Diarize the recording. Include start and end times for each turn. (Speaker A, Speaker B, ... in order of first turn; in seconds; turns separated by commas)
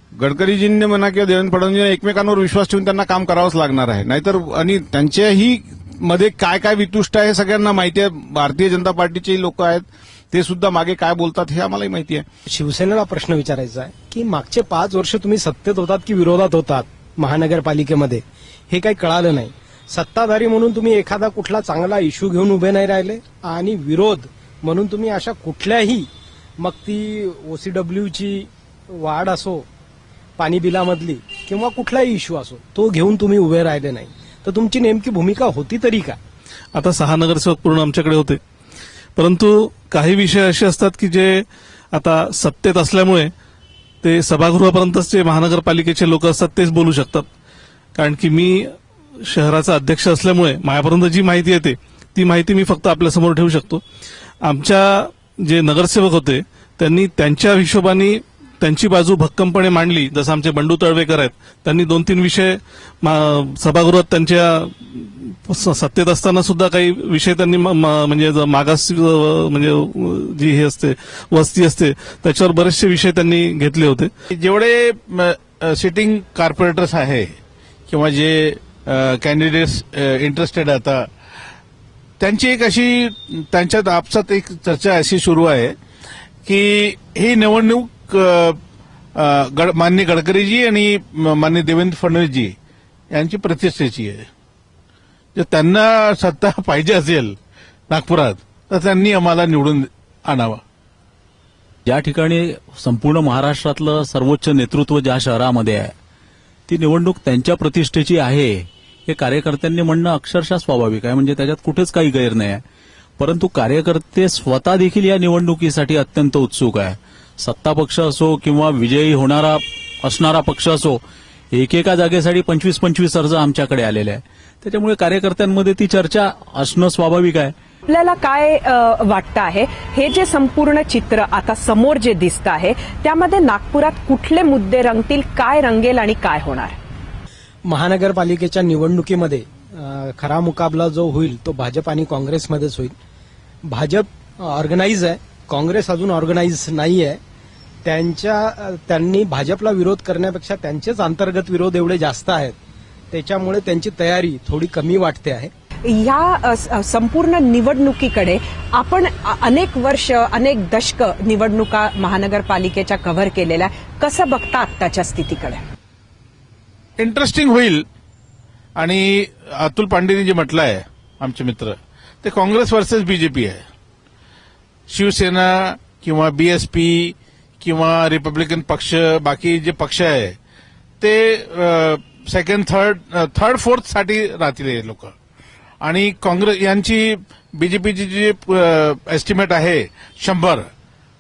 Speaker A: 0.2-12.2, Speaker B: 12.5-29.6, Speaker B: 30.4-36.2, Speaker C: 36.8-38.4, Speaker C: 39.2-41.4, Speaker C: 41.9-43.3, Speaker C: 44.0-47.3, Speaker C: 48.0-48.8, Speaker C: 49.3-53.8, Speaker C: 54.5-74.1, Speaker D: 74.3-77.3, Speaker D: 77.9-81.1, Speaker D: 82.2-85.8, Speaker D: 86.5-88.6, Speaker D: 89.2-92.5, Speaker D: 93.1-94.3, Speaker D: 95.4-97.4, Speaker D: 97.9-100.6, Speaker E: 101.9-105.9, Speaker E: 106.7-112.6, Speaker E: 113.2-121.0, Speaker E: 121.5-127.5, Speaker F: 127.9-136.8, Speaker B: 137.7-142.9, Speaker B: 143.6-147.2, Speaker B: 147.8-152.6, Speaker B: 153.1-155.5, Speaker F: 155.9-165.6, Speaker D: 167.0-167.8, Speaker D: 168.8-173.6, Speaker D: 174.9-180.4, Speaker D: 181.0-185.1, Speaker D: 185.8-190.7